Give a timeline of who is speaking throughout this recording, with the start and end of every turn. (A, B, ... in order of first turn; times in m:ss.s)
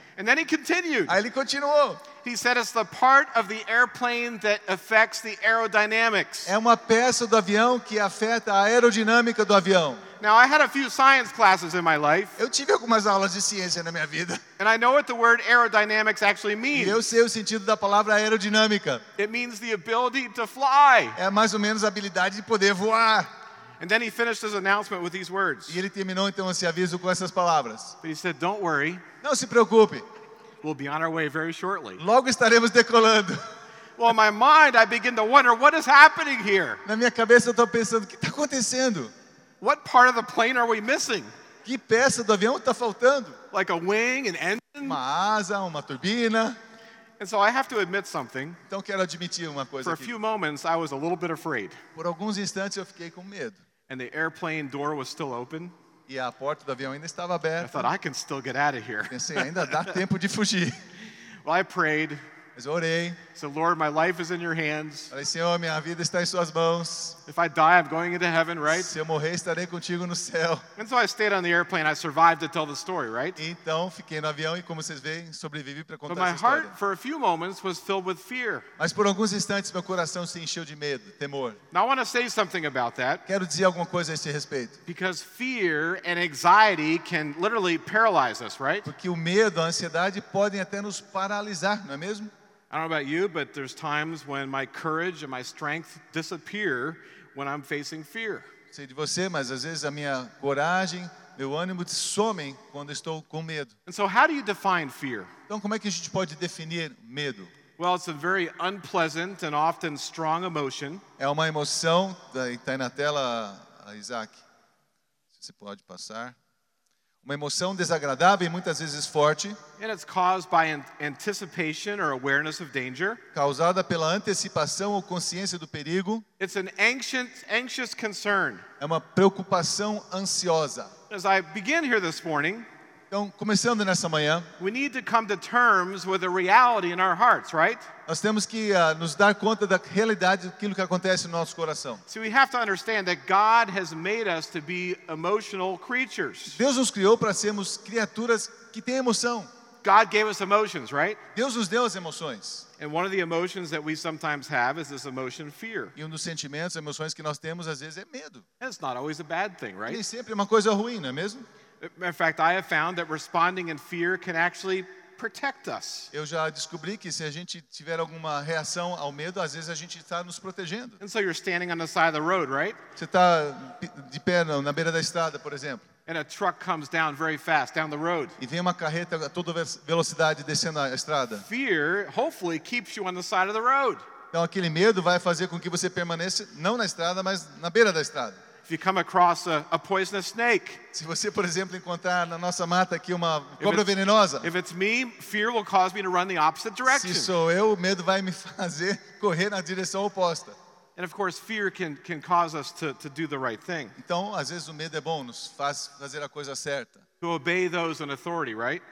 0:00.2-0:01.2 A
0:01.1-0:02.0 B
0:02.2-0:06.5 A
0:06.4-0:10.0 B
0:10.2-0:12.4 A
0:12.4-0:14.4 B
0:14.6-0:17.0 A
0:16.7-0:19.0 B
0:19.2-0:21.2 A
0:21.2-0:23.3 B
0:23.8-0:25.8 A
0:25.7-0:27.9 B
0:28.0-0:29.0 A
0:29.2-0:30.0 B
0:30.6-0:32.0 A
0:32.0-0:33.4 B
0:34.0-0:36.8 A
0:36.8-0:39.1 B
0:39.6-0:41.3 A
0:41.6-0:43.4 B
0:43.5-0:45.0 A
0:44.8-0:46.6 B
0:47.2-0:48.6 A
0:48.7-0:50.2 B
0:49.8-0:51.8 A
0:51.9-0:53.6 B
0:53.9-0:55.7 A
0:56.1-0:57.9 B
0:57.6-1:00.0 A
0:59.1-1:00.8 B
1:01.4-1:02.2 A
1:02.6-1:03.2 B
1:03.3-1:05.1 A
1:05.1-1:07.2 B
1:07.2-1:08.9 A
1:08.7-1:10.6 B
1:10.8-1:13.4 A
1:13.4-1:16.8 B
1:16.1-1:18.6 A
1:18.8-1:21.6 B
1:21.7-1:23.2 A
1:23.2-1:24.8 B
1:24.9-1:28.9 A
1:28.8-1:32.3 B
1:32.7-1:38.5 A
1:38.7-1:43.7 B
1:43.8-1:45.3 A
1:45.5-1:47.5 B
1:47.8-1:51.0 A
1:51.2-1:54.4 B
1:55.4-1:56.4 B
1:57.2-1:59.6 B
1:59.8-2:03.2 A
2:03.3-2:06.2 B
2:06.4-2:08.6 A
2:08.8-2:10.9 B
2:11.1-2:12.7 A
2:13.1-2:14.5 B
2:14.6-2:17.9 A
2:18.1-2:22.0 B
2:22.1-2:26.6 A
2:26.5-2:29.5 B
2:29.8-2:31.2 A
2:31.3-2:32.7 B
2:32.8-2:35.9 A
2:36.0-2:38.4 B
2:38.6-2:40.0 A
2:39.9-2:41.4 B
2:41.8-2:46.1 A
2:46.1-2:51.0 B
2:51.0-2:52.8 A
2:53.0-2:55.8 B
2:56.0-2:58.4 A
2:58.4-3:01.4 B
3:01.3-3:04.0 A
3:04.3-3:08.4 B
3:08.6-3:10.8 A
3:10.9-3:14.5 B
3:13.6-3:13.9 A
3:14.4-3:17.3 A
3:16.8-3:20.6 B
3:21.0-3:24.0 A
3:24.0-3:27.0 B
3:27.2-3:28.8 A